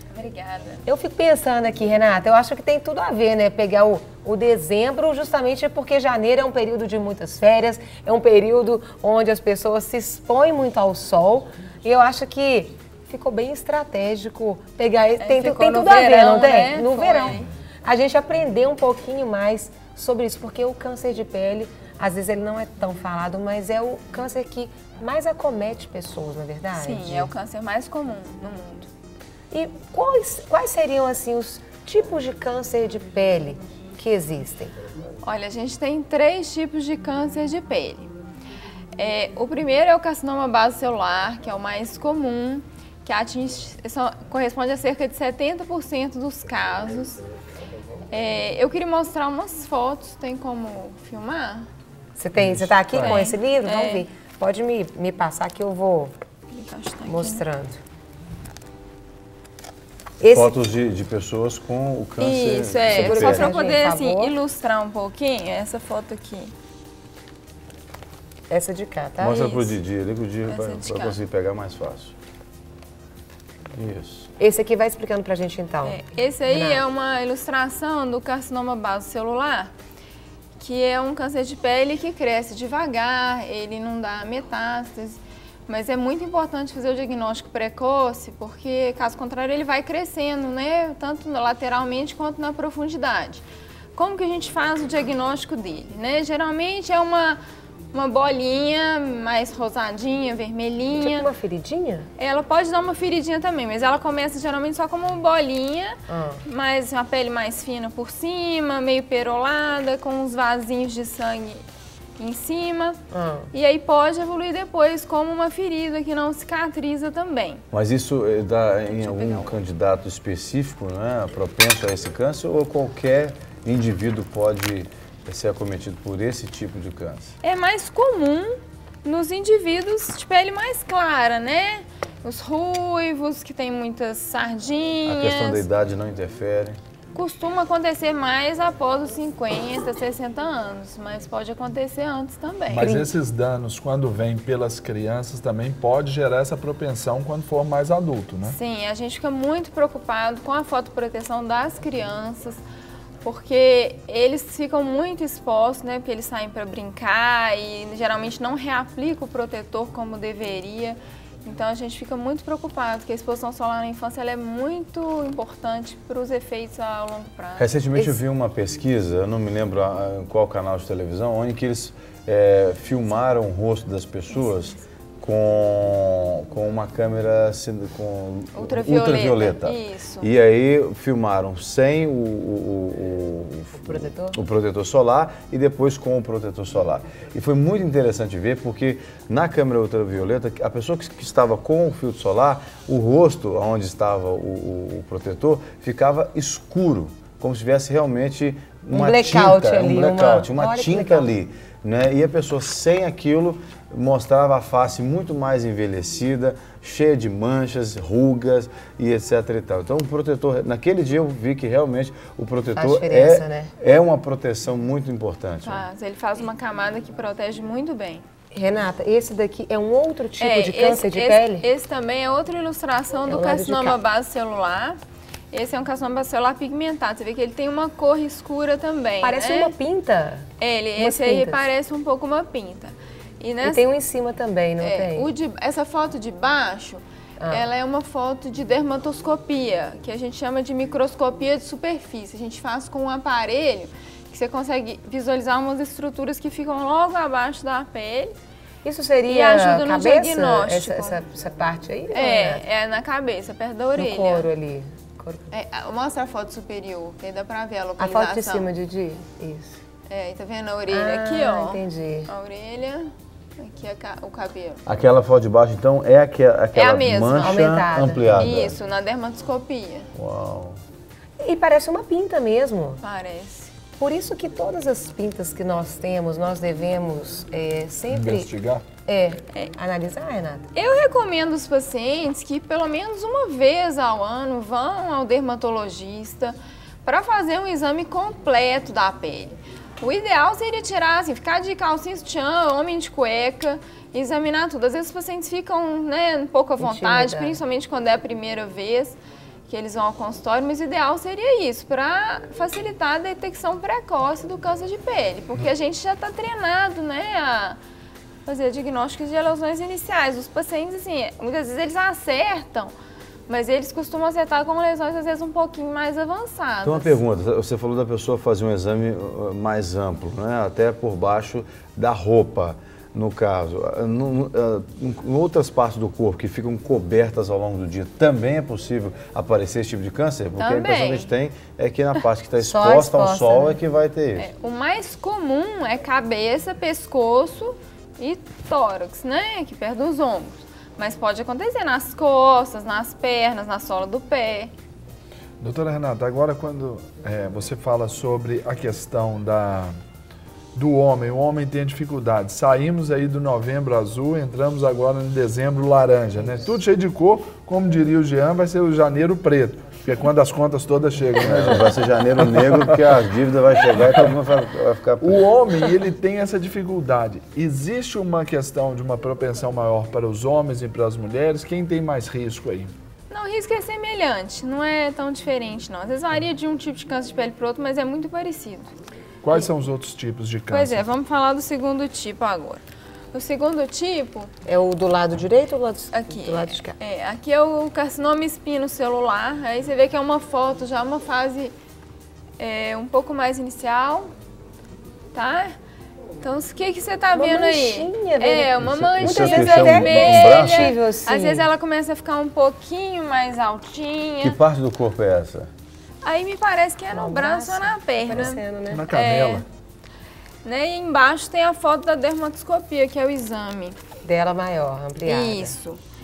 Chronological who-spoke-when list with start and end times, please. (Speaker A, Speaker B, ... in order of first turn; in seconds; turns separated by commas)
Speaker A: 0.1-0.8, Speaker B: 0.8-27.3, Speaker A: 15.2-17.5, Speaker A: 26.8-28.9, Speaker B: 29.5-34.8, Speaker A: 35.2-38.1, Speaker A: 39.0-47.2, Speaker A: 48.1-51.7, Speaker B: 52.2-56.1, Speaker C: 52.4-53.2, Speaker A: 53.0-54.0, Speaker A: 56.5-57.4, Speaker B: 57.1-57.8, Speaker B: 60.2-60.6, Speaker D: 60.3-63.6, Speaker A: 62.2-66.5, Speaker B: 62.9-64.3, Speaker B: 68.5-69.5, Speaker D: 69.2-72.1, Speaker A: 69.3-69.7, Speaker A: 70.5-71.2, Speaker D: 73.8-74.3, Speaker B: 74.4-76.8, Speaker A: 75.8-79.7, Speaker A: 80.6-93.4, Speaker A: 94.0-97.4, Speaker A: 97.9-101.3, Speaker B: 101.0-102.1, Speaker A: 102.2-111.6, Speaker B: 106.1-106.4, Speaker A: 112.2-113.0, Speaker B: 113.1-113.5, Speaker A: 113.5-117.6, Speaker D: 117.7-127.4, Speaker A: 118.9-119.6, Speaker A: 127.4-135.6, Speaker D: 135.1-136.8, Speaker A: 137.1-143.0, Speaker C: 142.7-148.6, Speaker B: 142.8-143.1, Speaker A: 148.5-152.6, Speaker A: 153.2-167.7, Speaker D: 167.6-215.8, Speaker A: 174.5-174.8, Speaker A: 178.6-180.3, Speaker B: 183.8-184.4, Speaker B: 198.9-201.3, Speaker B: 212.8-213.7, Speaker A: 215.6-218.2, Speaker B: 218.5-221.7, Speaker A: 220.4-225.0, Speaker B: 223.3-224.0, Speaker A: 225.5-229.8, Speaker B: 229.2-230.5, Speaker A: 230.6-233.8, Speaker B: 231.0-231.6, Speaker B: 233.6-235.3, Speaker A: 234.8-248.3, Speaker B: 248.8-252.6, Speaker A: 249.3-251.2, Speaker A: 252.1-254.5, Speaker B: 254.0-255.5, Speaker A: 255.5-258.7, Speaker B: 258.0-259.8, Speaker A: 260.1-264.8, Speaker B: 260.9-262.3, Speaker D: 264.9-268.8, Speaker A: 266.7-267.7, Speaker B: 267.4-268.2, Speaker A: 268.2-270.1, Speaker D: 270.1-270.8, Speaker B: 271.4-273.0, Speaker A: 273.0-273.7, Speaker B: 274.0-278.5, Speaker C: 278.1-278.9, Speaker B: 279.1-280.6, Speaker A: 280.8-307.8, Speaker B: 296.8-297.6, Speaker A: 308.5-312.9, Speaker A: 313.5-317.2, Speaker D: 316.8-334.5, Speaker A: 330.6-331.3, Speaker B: 332.6-333.8, Speaker A: 334.4-344.7, Speaker C: 345.6-349.9, Speaker C: 350.8-363.1, Speaker D: 361.4-365.5, Speaker C: 364.0-364.3, Speaker C: 365.2-372.9, Speaker A: 373.3-378.9, Speaker C: 379.4-381.0, Speaker A: 380.7-382.8, Speaker A: 383.3-384.5, Speaker B: 384.7-387.0, Speaker A: 386.1-391.7, Speaker A: 392.6-394.3, Speaker A: 395.3-395.8, Speaker A: 396.4-404.6, Speaker B: 397.4-401.7, Speaker D: 398.8-400.9, Speaker D: 404.4-405.7, Speaker A: 406.2-409.7, Speaker B: 407.1-409.1, Speaker C: 408.9-409.6, Speaker A: 410.6-414.0, Speaker B: 414.2-415.8, Speaker A: 415.3-416.0